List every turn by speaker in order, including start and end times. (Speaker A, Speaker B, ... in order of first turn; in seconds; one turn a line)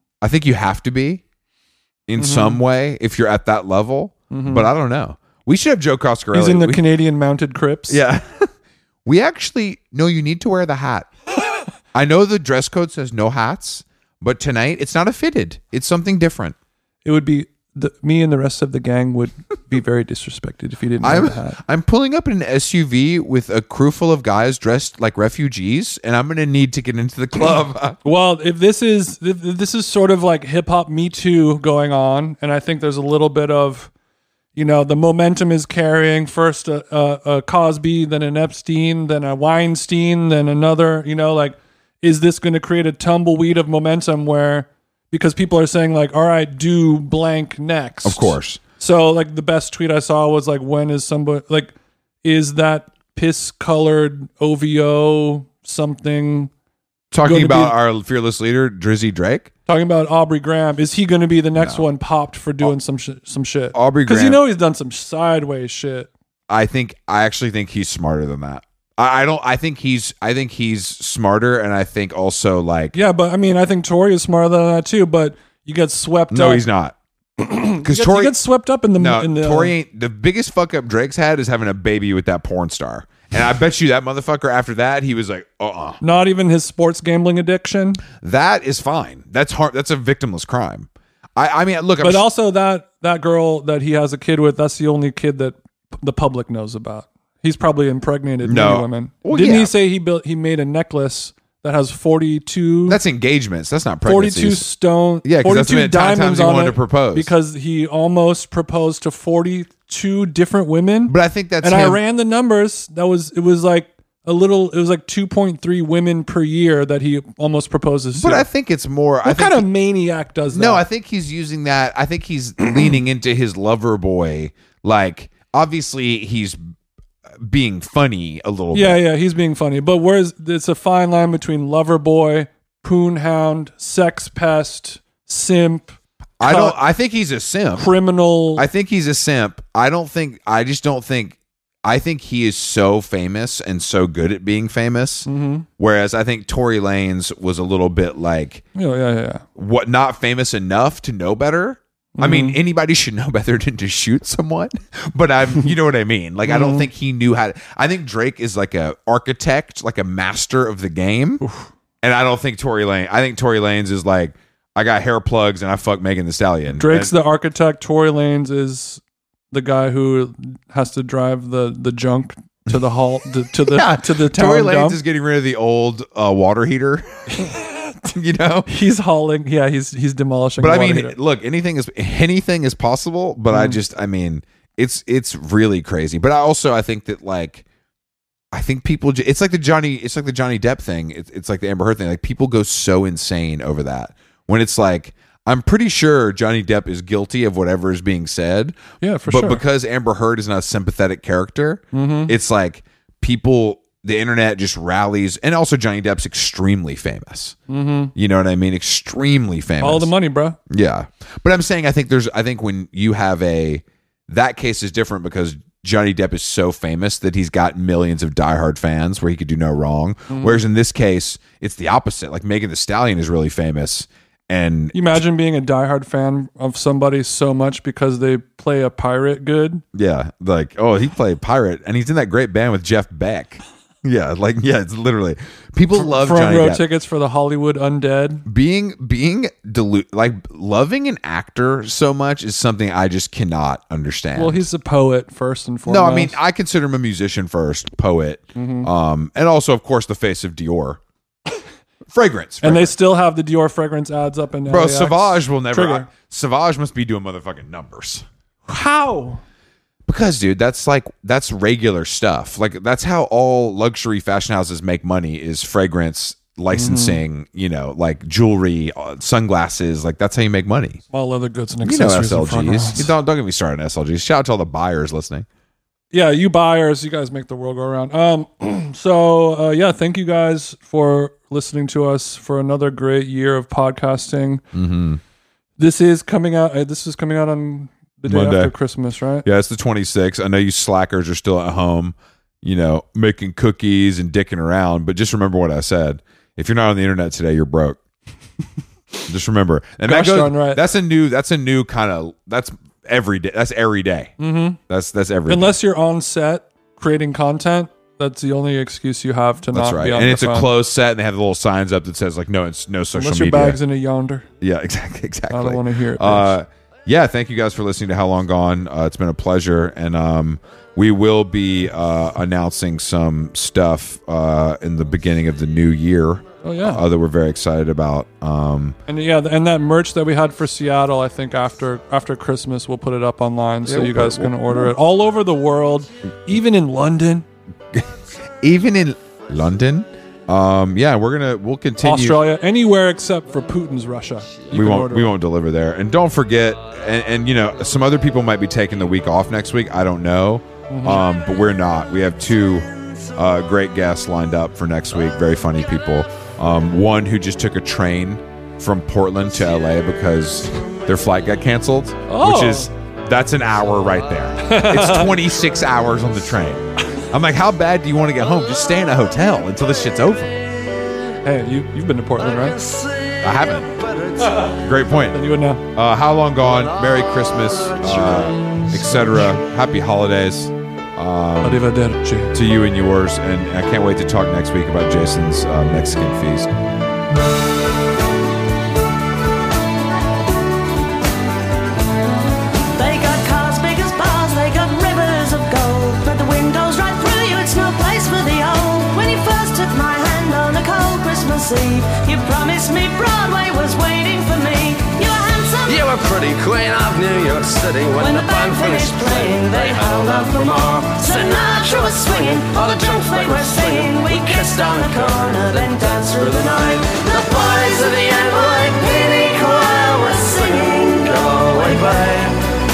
Speaker A: 0.2-1.2
Speaker A: 2.1-6.8
Speaker B: 2.2-2.6
Speaker B: 4.3-4.7
Speaker B: 6.3-8.0
Speaker A: 7.9-8.5
Speaker A: 9.1-11.1
Speaker A: 11.9-16.6
Speaker B: 17.1-21.6
Speaker A: 21.0-28.0
Speaker B: 28.0-33.9
Speaker B: 34.5-51.7
Speaker A: 48.0-48.6
Speaker B: 52.2-56.5
Speaker A: 57.1-59.5
Speaker B: 57.2-57.8
Speaker B: 59.7-66.1
Speaker A: 61.6-61.9
Speaker A: 63.7-64.4
Speaker A: 66.5-73.0
Speaker B: 72.9-76.7
Speaker A: 76.3-77.0
Speaker B: 77.4-79.7
Speaker A: 77.8-78.3
Speaker A: 79.0-86.0
Speaker B: 86.0-88.0
Speaker A: 88.2-92.2
Speaker B: 92.0-103.0
Speaker A: 98.4-99.7
Speaker A: 102.9-104.7
Speaker B: 104.0-118.5
Speaker A: 105.2-107.3
Speaker A: 111.1-112.0
Speaker A: 118.2-119.7
Speaker B: 119.2-120.8
Speaker A: 120.5-126.6
Speaker A: 127.4-129.0
Speaker B: 128.7-136.8
Speaker A: 136.4-137.9
Speaker B: 137.8-138.7
Speaker A: 138.6-148.6
Speaker B: 145.3-145.7
Speaker B: 148.8-149.4
Speaker A: 149.6-161.4
Speaker B: 152.2-152.6
Speaker B: 156.4-156.9
Speaker A: 162.0-167.1
Speaker B: 166.7-175.0
Speaker A: 173.7-177.6
Speaker B: 177.4-177.6
Speaker A: 178.1-178.7
Speaker B: 178.7-181.2
Speaker A: 180.6-187.6
Speaker B: 183.5-183.8
Speaker A: 188.5-207.6
Speaker B: 199.0-199.6
Speaker B: 201.9-202.3
Speaker B: 207.7-208.1
Speaker A: 208.2-210.1
Speaker B: 209.8-210.6
Speaker A: 210.7-225.2
Speaker B: 220.3-220.6
Speaker B: 224.9-229.8
Speaker A: 229.9-236.8
Speaker B: 235.9-238.4
Speaker A: 238.5-244.6
Speaker B: 244.3-246.4
Speaker A: 245.9-251.0
Speaker B: 248.6-248.9
Speaker A: 252.1-252.9
Speaker B: 252.6-256.1
Speaker A: 254.7-258.3
Speaker B: 258.7-259.4
Speaker A: 260.1-271.0
Speaker B: 266.7-267.2
Speaker B: 271.1-273.1
Speaker A: 271.8-275.5
Speaker B: 276.1-284.6
Speaker A: 284.7-285.2
Speaker B: 285.8-289.5
Speaker A: 288.3-288.8
Speaker A: 289.4-298.0
Speaker A: 299.3-304.4
Speaker B: 300.1-300.8
Speaker B: 304.4-304.8
Speaker A: 304.9-305.7
Speaker B: 305.5-310.7
Speaker A: 309.7-313.8
Speaker B: 313.1-314.5
Speaker A: 314.6-329.0
Speaker B: 315.5-316.6
Speaker B: 326.6-327.0
Speaker B: 329.1-337.4
Speaker A: 333.9-334.9
Speaker A: 338.6-342.4
Speaker B: 342.0-345.3
Speaker A: 344.7-370.6
Speaker B: 350.9-351.2
Speaker B: 362.3-362.9
Speaker B: 364.6-365.4
Speaker B: 371.4-372.8
Speaker A: 373.4-373.9
Speaker C: 373.9-374.6
Speaker A: 374.6-375.4
Speaker B: 375.3-375.8
Speaker A: 375.9-381.9
Speaker C: 377.9-378.8
Speaker B: 381.6-382.6
Speaker A: 382.5-386.7
Speaker D: 392.9-406.1
Speaker C: 405.9-419.6
Speaker D: 408.2-422.5
Speaker C: 421.2-422.5